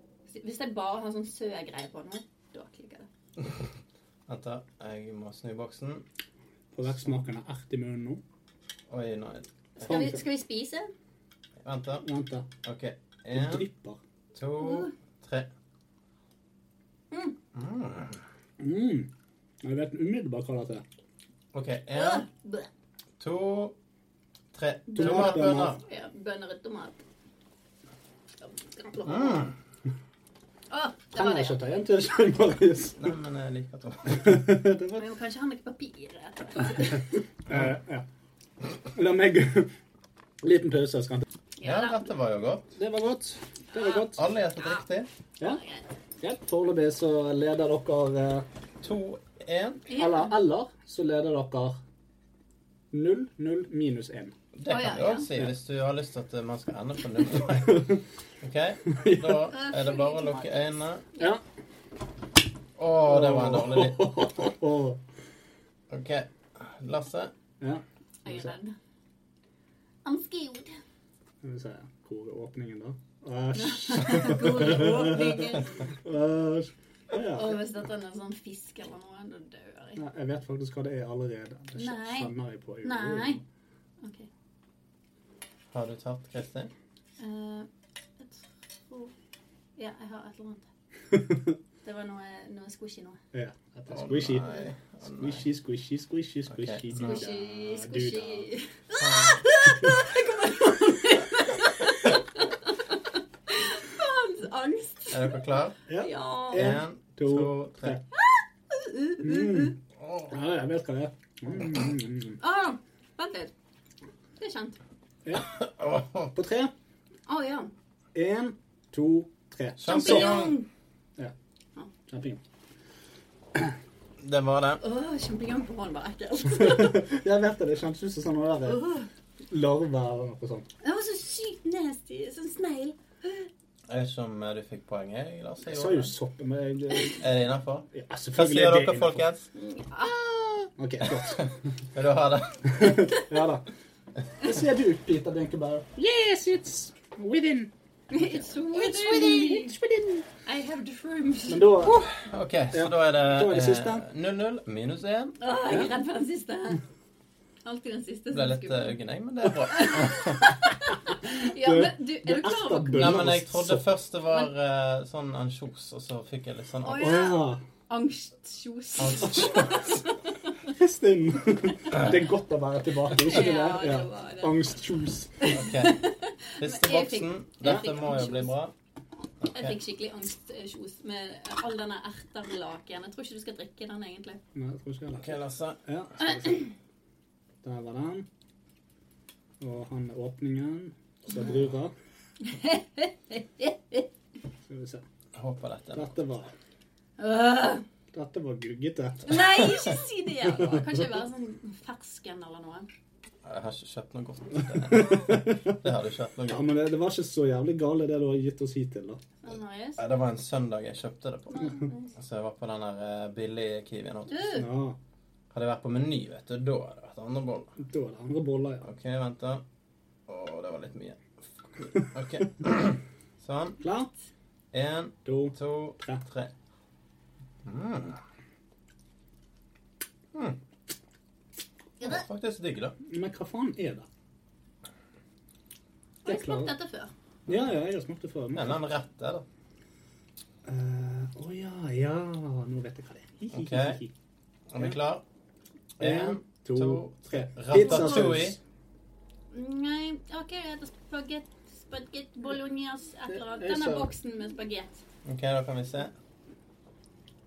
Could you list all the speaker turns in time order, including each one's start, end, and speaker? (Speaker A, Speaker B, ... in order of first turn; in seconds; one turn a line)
Speaker A: 0.3-3.1
Speaker B: 3.4-3.7
Speaker B: 4.3-6.0
Speaker C: 6.7-8.2
Speaker B: 8.9-10.1
Speaker A: 9.8-10.9
Speaker C: 9.8-10.2
Speaker B: 11.6-12.0
Speaker C: 12.0-12.5
Speaker B: 12.6-13.7
Speaker C: 13.3-14.0
Speaker B: 14.3-15.5
Speaker A: 14.6-14.9
Speaker A: 17.1-17.4
Speaker B: 17.5-18.2
Speaker C: 18.6-19.1
Speaker C: 19.6-20.8
Speaker B: 21.5-22.2
Speaker A: 21.9-22.7
Speaker B: 23.2-23.7
Speaker B: 24.5-25.8
Speaker A: 24.9-27.0
Speaker C: 24.9-25.8
Speaker A: 28.4-29.5
Speaker B: 29.1-29.5
Speaker A: 30.7-31.6
Speaker C: 31.1-33.0
Speaker B: 33.0-34.4
Speaker C: 34.1-35.0
Speaker A: 35.0-37.1
Speaker C: 37.5-38.0
Speaker C: 38.9-39.7
Speaker C: 40.4-41.2
Speaker A: 41.6-42.1
Speaker B: 41.6-42.7
Speaker C: 42.8-44.2
Speaker A: 43.8-44.8
Speaker B: 43.9-45.1
Speaker A: 45.5-45.8
Speaker C: 46.2-48.5
Speaker B: 48.8-49.9
Speaker A: 49.9-50.4
Speaker C: 49.9-51.8
Speaker C: 52.9-54.3
Speaker B: 54.5-61.0
Speaker A: 54.7-55.3
Speaker C: 57.6-58.0
Speaker C: 58.9-59.4
Speaker A: 59.5-60.5
Speaker B: 62.8-64.5
Speaker C: 63.0-65.0
Speaker B: 65.9-67.3
Speaker C: 67.6-68.5
Speaker A: 68.2-68.7
Speaker A: 70.0-70.8
Speaker C: 71.4-77.6
Speaker A: 73.5-75.7
Speaker A: 77.3-80.0
Speaker C: 80.0-83.4
Speaker A: 81.8-82.3
Speaker A: 82.8-83.4
Speaker A: 84.0-84.3
Speaker B: 85.7-86.7
Speaker A: 87.2-87.7
Speaker A: 88.2-89.1
Speaker A: 89.8-90.7
Speaker C: 91.1-91.5
Speaker A: 91.8-93.2
Speaker C: 93.3-94.5
Speaker B: 93.9-95.4
Speaker C: 95.0-98.5
Speaker B: 96.5-97.3
Speaker A: 97.0-105.3
Speaker B: 99.0-99.5
Speaker B: 105.1-105.8
Speaker C: 105.9-108.0
Speaker A: 106.0-106.7
Speaker B: 106.5-108.0
Speaker A: 108.1-109.7
Speaker C: 109.2-109.8
Speaker B: 110.0-110.3
Speaker C: 110.3-112.4
Speaker A: 112.4-113.5
Speaker A: 114.4-114.8
Speaker B: 115.3-116.3
Speaker C: 116.3-116.7
Speaker A: 117.3-117.7
Speaker C: 118.1-120.3
Speaker B: 119.8-120.6
Speaker A: 119.8-120.7
Speaker C: 122.1-122.4
Speaker B: 124.2-124.8
Speaker A: 124.8-127.0
Speaker C: 126.5-128.9
Speaker A: 128.7-129.1
Speaker C: 129.5-130.7
Speaker A: 130.8-133.5
Speaker B: 133.9-136.1
Speaker C: 135.7-137.2
Speaker B: 137.1-139.5
Speaker C: 137.9-139.2
Speaker A: 139.6-140.1
Speaker C: 140.0-141.5
Speaker B: 141.0-143.2
Speaker C: 142.7-143.7
Speaker C: 144.4-150.2
Speaker A: 148.1-149.7
Speaker A: 150.4-152.1
Speaker C: 151.5-152.0
Speaker B: 152.1-155.4
Speaker C: 152.7-154.0
Speaker A: 155.4-156.8
Speaker A: 157.6-158.9
Speaker B: 158.3-160.5
Speaker A: 159.7-163.2
Speaker C: 161.3-163.8
Speaker B: 162.9-167.2
Speaker A: 166.8-170.2
Speaker C: 167.0-167.6
Speaker B: 169.0-170.0
Speaker C: 170.7-175.5
Speaker A: 173.2-174.7
Speaker A: 175.4-178.5
Speaker B: 175.5-176.0
Speaker B: 176.6-178.7
Speaker B: 179.4-179.8
Speaker A: 179.5-184.4
Speaker C: 184.5-186.7
Speaker B: 185.2-185.8
Speaker C: 187.6-188.2
Speaker C: 189.6-191.9
Speaker A: 192.4-194.1
Speaker C: 194.7-195.0
Speaker B: 195.3-196.1
Speaker C: 195.9-196.5
Speaker A: 197.2-197.8
Speaker C: 198.1-199.3
Speaker A: 199.3-202.9
Speaker B: 199.3-200.0
Speaker B: 203.4-206.6
Speaker C: 204.9-205.8
Speaker C: 206.5-209.2
Speaker A: 209.4-210.0
Speaker B: 210.0-214.6
Speaker A: 211.5-212.1
Speaker A: 214.3-214.7
Speaker C: 214.5-215.0
Speaker B: 215.5-217.7
Speaker C: 217.8-218.9
Speaker B: 218.8-219.6
Speaker B: 220.3-223.8
Speaker C: 223.8-224.1
Speaker B: 224.7-226.5
Speaker C: 225.2-226.2
Speaker B: 227.6-228.2
Speaker B: 230.3-230.6
Speaker B: 232.0-232.9
Speaker C: 233.0-234.1
Speaker A: 236.2-237.1
Speaker C: 236.2-236.7
Speaker C: 237.5-238.8
Speaker B: 238.5-239.4
Speaker C: 240.6-244.1
Speaker B: 243.5-244.0
Speaker B: 244.7-245.2
Speaker B: 246.0-248.6
Speaker C: 246.0-248.6
Speaker A: 247.7-248.4
Speaker A: 249.5-255.0
Speaker C: 253.3-254.1
Speaker B: 255.2-256.1